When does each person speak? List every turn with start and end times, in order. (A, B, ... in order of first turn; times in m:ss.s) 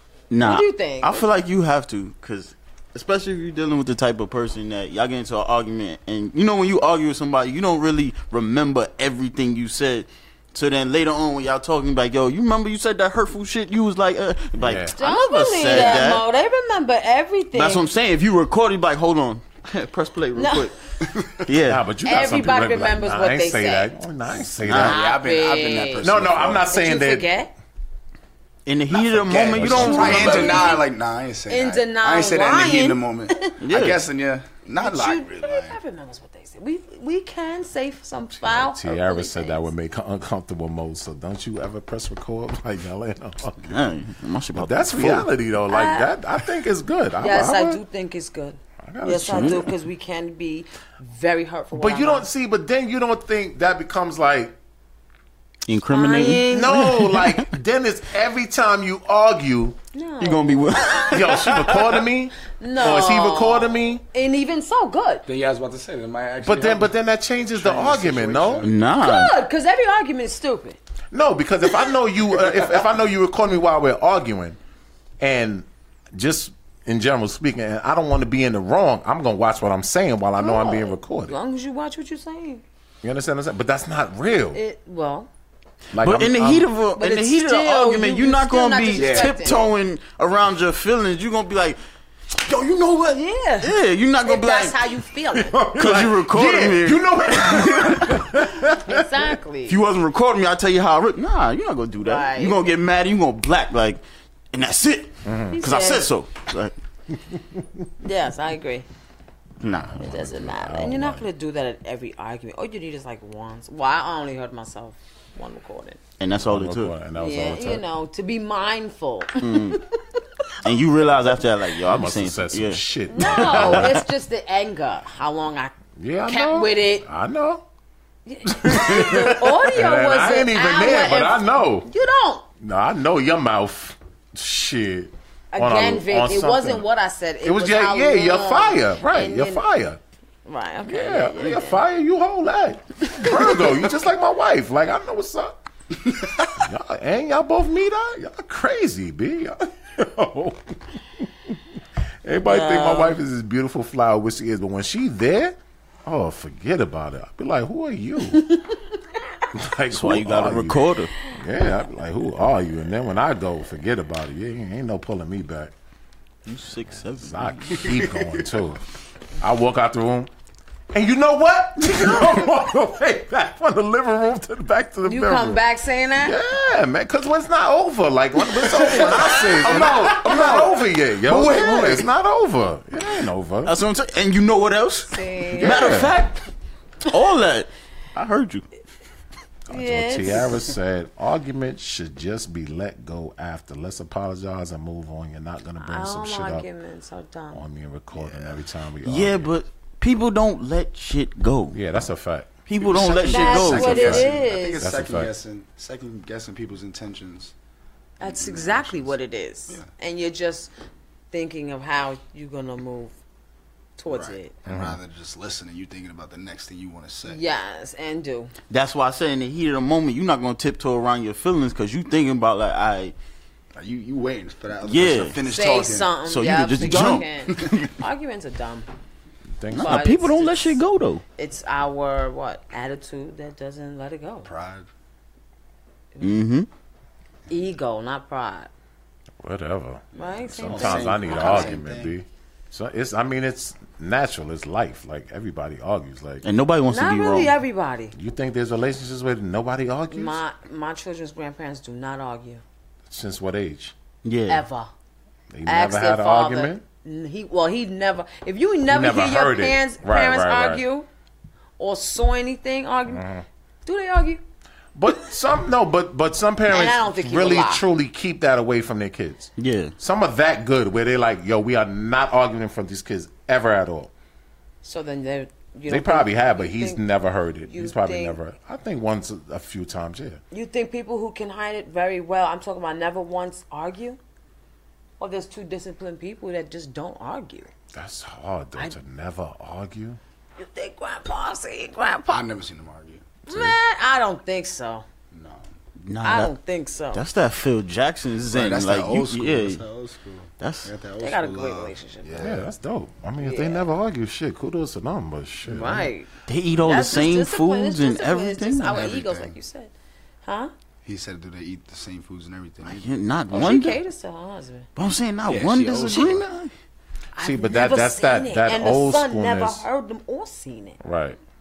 0:00.3-0:16.2 A
0:00.4-0:01.2 B
0:14.6-0:14.9 C
0:15.0-0:17.9 B
0:17.5-0:20.7 A
0:20.4-0:20.7 B
0:21.0-0:21.4 D
0:21.4-0:21.8 A
0:21.6-0:25.0 C
0:22.0-0:23.9 B
0:24.6-0:24.9 A
0:24.6-0:26.6 D
0:24.8-0:26.1 B
0:26.0-0:27.3 C
0:26.6-0:27.5 B
0:28.6-0:30.8 A
0:28.9-0:35.8 D
0:29.5-0:30.5 C
0:29.8-0:30.8 B
0:31.5-0:33.6 B
0:33.6-0:34.0 A
0:34.8-0:39.7 B
0:38.4-0:43.8 C
0:43.6-0:45.3 A
0:44.5-0:47.8 C
0:45.7-0:46.1 B
0:47.2-0:52.3 B
0:48.8-0:49.7 C
0:49.3-0:49.6 A
0:51.7-0:54.5 C
0:55.7-0:57.5 A
0:55.9-0:56.9 B
0:56.5-0:59.8 C
0:59.9-1:01.1 B
1:00.2-1:02.0 A
1:01.1-1:04.0 C
1:02.6-1:05.2 B
1:05.2-1:06.9 D
1:06.4-1:08.7 C
1:07.5-1:08.7 D
1:08.6-1:09.3 A
1:09.0-1:10.8 B
1:11.1-1:14.6 C
1:15.2-1:21.3 C
1:20.4-1:22.6 B
1:23.0-1:24.6 C
1:24.5-1:25.3 B
1:25.9-1:26.7 C
1:26.0-1:31.8 A
1:27.0-1:29.7 B
1:29.0-1:29.5 D
1:32.4-1:34.8 A
1:33.1-1:35.6 B
1:35.3-1:39.3 C
1:35.8-1:38.0 A
1:38.8-1:39.8 B
1:39.7-1:44.0 A
1:42.0-1:42.7 B
1:44.5-1:46.7 A
1:45.2-1:45.6 C
1:45.5-1:46.1 B
1:47.4-1:47.6 C
1:48.0-1:48.8 B
1:49.6-1:50.0 A
1:49.7-1:51.3 C
1:50.0-1:56.0 B
1:56.2-1:56.9 A
1:56.4-1:57.8 C
1:57.2-1:59.9 B
1:59.4-1:59.8 A
2:00.6-2:04.0 A
2:01.8-2:04.0 C
2:03.1-2:05.8 B
2:06.0-2:07.6 C
2:06.3-2:07.0 B
2:08.2-2:12.4 B
2:08.4-2:11.9 C
2:12.6-2:16.9 C
2:15.5-2:19.6 B
2:17.4-2:20.0 C
2:20.4-2:21.8 B
2:20.8-2:25.6 C
2:26.5-2:31.6 C
2:32.2-2:38.5 C
2:32.4-2:33.2 B
2:38.5-2:38.7 B
2:39.5-2:45.7 C
2:39.9-2:41.1 A
2:46.4-2:47.8 A
2:47.2-2:48.8 C
2:48.0-2:48.2 D
2:49.4-2:50.3 C
2:50.9-2:55.6 C
2:55.0-2:56.4 B
2:56.2-3:03.7 C
2:58.8-3:00.6 A
2:58.9-3:00.7 D
3:01.3-3:02.0 A
3:03.6-3:06.5 A
3:05.1-3:06.1 B
3:05.6-3:06.2 C
3:07.0-3:08.7 A
3:09.7-3:16.7 C
3:09.7-3:10.5 B
3:15.8-3:17.6 B
3:17.5-3:19.5 C
3:18.1-3:18.6 D
3:19.0-3:21.8 A
3:21.7-3:22.5 C
3:22.7-3:24.2 A
3:22.8-3:27.5 D
3:23.2-3:24.8 B
3:23.7-3:24.3 C
3:24.8-3:25.3 C
3:28.2-3:30.7 B
3:28.2-3:29.2 D
3:31.3-3:33.2 B
3:34.0-3:34.6 B
3:34.1-3:37.4 D
3:34.6-3:35.0 C
3:37.2-3:38.5 B
3:38.7-3:43.1 A
3:43.8-3:46.1 D
3:44.8-3:45.4 A
3:45.5-3:48.9 B
3:46.2-3:47.8 A
3:46.8-3:47.9 D
3:49.5-3:50.0 C
3:49.7-3:51.2 A
3:49.8-3:50.8 B
3:51.4-3:54.5 B
3:54.4-3:54.9 D
3:56.2-3:56.7 A
3:57.5-3:58.7 B
3:59.4-4:06.4 C
4:00.2-4:01.8 B
4:00.2-4:02.1 D
4:06.4-4:07.6 A
4:06.9-4:08.1 B
4:08.1-4:10.4 C
4:10.1-4:12.6 B
4:13.0-4:13.9 C
4:14.2-4:14.6 A
4:14.5-4:14.9 B
4:15.5-4:16.8 C
4:15.6-4:21.1 B
4:18.9-4:20.8 C
4:21.8-4:23.3 B
4:23.1-4:23.4 C
4:23.8-4:24.4 B
4:24.9-4:34.1 C
4:26.7-4:27.8 B
4:29.6-4:29.9 A
4:34.8-4:37.0 B
4:35.9-4:40.4 C
4:37.6-4:38.4 B
4:40.5-4:44.2 B
4:45.2-4:47.7 B
4:47.9-4:50.2 C
4:50.6-4:52.4 B
4:52.3-4:53.7 D
4:53.5-4:55.0 B
4:55.3-4:55.7 D
4:56.0-4:56.5 A
4:56.2-4:57.2 B
4:57.1-4:59.8 A
4:58.5-5:02.6 D
5:00.6-5:00.9 A
5:01.2-5:02.5 B
5:02.4-5:06.1 C
5:03.4-5:03.8 B
5:05.6-5:06.3 B
5:06.5-5:09.0 A
5:06.8-5:09.9 B
5:08.8-5:09.6 D
5:10.4-5:10.7 B
5:11.0-5:13.1 D
5:12.8-5:14.0 A
5:13.5-5:14.9 B
5:15.0-5:16.7 A
5:15.4-5:16.4 D
5:17.3-5:21.0 B
5:17.4-5:19.8 C
5:21.0-5:21.4 C